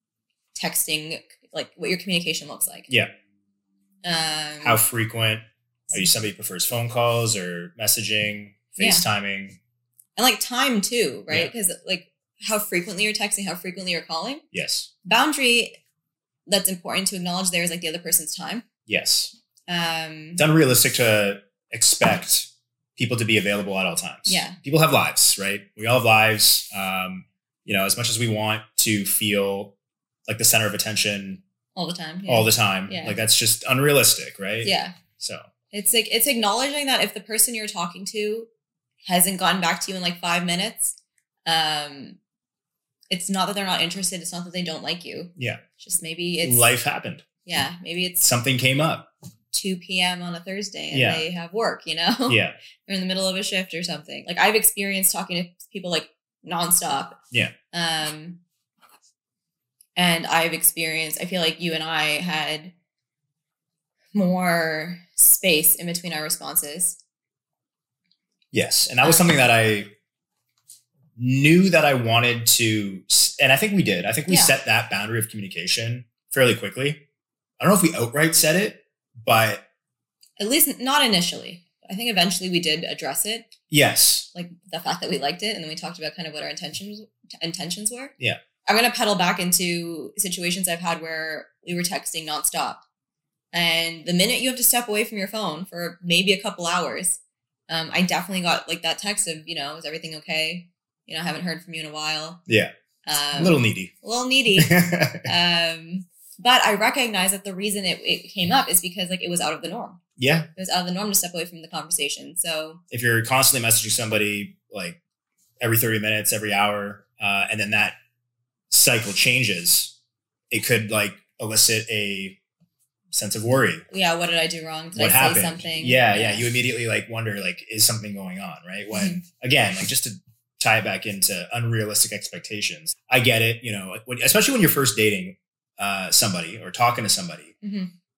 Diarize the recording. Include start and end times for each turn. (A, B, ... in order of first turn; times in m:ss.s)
0:00.5-0:02.9 A
0:04.0-0:04.8 A
0:04.6-0:09.6 B
0:08.8-0:09.0 A
0:10.2-0:14.4 A
0:14.5-0:14.9 B
0:15.0-0:15.7 A
0:16.5-0:18.6 A
0:18.9-0:19.3 B
0:19.7-0:20.4 A
0:20.4-0:29.7 B
0:24.3-0:24.6 A
0:30.3-0:31.4 B
0:31.8-0:33.2 A
0:32.2-0:35.4 B
0:34.6-0:34.9 A
0:35.7-0:38.5 A
0:39.0-0:42.2 A
0:43.1-0:46.6 A
0:45.4-0:45.6 B
0:46.4-0:47.2 B
0:47.4-0:48.2 A
0:48.2-0:49.1 B
0:49.5-0:57.2 A
0:50.9-0:51.2 B
0:52.3-0:52.6 B
0:57.7-0:58.4 A
1:00.0-1:02.7 A
1:04.1-1:07.0 A
1:08.5-1:09.9 B
1:09.0-1:09.3 A
1:11.2-1:17.0 B
1:14.3-1:14.5 A
1:17.6-1:19.6 B
1:20.4-1:23.5 A
1:23.7-1:24.3 B
1:24.3-1:28.1 A
1:28.6-1:32.8 A
1:33.5-1:42.4 A
1:43.0-1:50.0 A
1:43.3-1:43.9 B
1:44.6-1:45.3 B
1:50.2-1:50.5 B
1:50.6-1:52.8 A
1:52.9-1:55.0 B
1:55.6-1:58.0 B
1:58.7-1:59.9 B
2:00.5-2:02.4 B
2:03.1-2:03.8 B
2:03.9-2:06.4 A
2:05.0-2:17.5 B
2:08.9-2:09.2 A
2:17.6-2:17.9 A